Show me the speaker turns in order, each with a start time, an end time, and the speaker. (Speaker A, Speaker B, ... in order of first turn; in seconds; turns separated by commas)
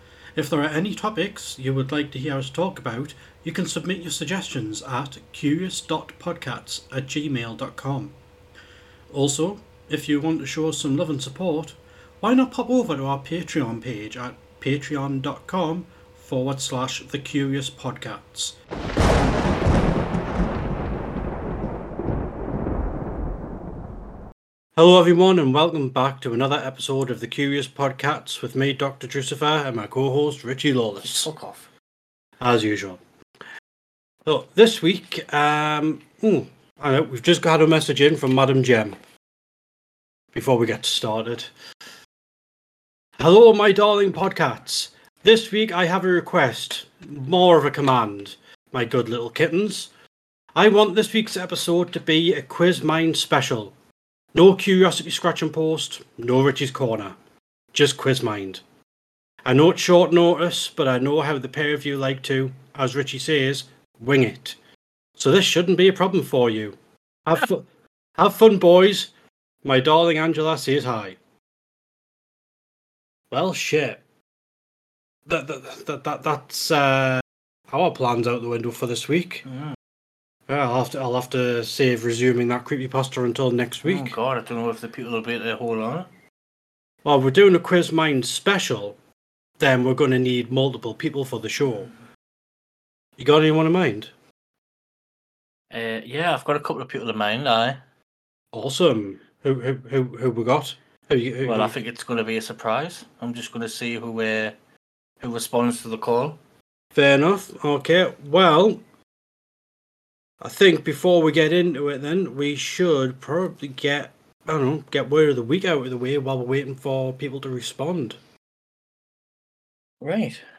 Speaker A: 0.4-8.1, Speaker A: 9.1-18.6, Speaker A: 24.8-31.3, Speaker B: 31.0-31.7, Speaker A: 32.4-33.0, Speaker A: 34.2-39.0, Speaker A: 40.3-41.5, Speaker A: 43.2-49.9, Speaker A: 50.5-53.7, Speaker A: 54.3-57.2, Speaker A: 57.7-58.6, Speaker A: 59.5-64.6, Speaker A: 65.2-67.7, Speaker A: 68.2-69.1, Speaker A: 69.6-71.2, Speaker A: 73.3-74.0, Speaker A: 75.3-79.5, Speaker B: 79.5-79.7, Speaker A: 80.5-84.2, Speaker B: 83.8-86.1, Speaker A: 87.0-89.0, Speaker A: 89.6-91.9, Speaker A: 93.2-94.1, Speaker B: 95.7-97.8, Speaker A: 98.5-101.8, Speaker B: 101.4-104.5, Speaker B: 105.2-106.4, Speaker A: 106.9-108.8, Speaker A: 110.4-118.2, Speaker B: 120.0-120.4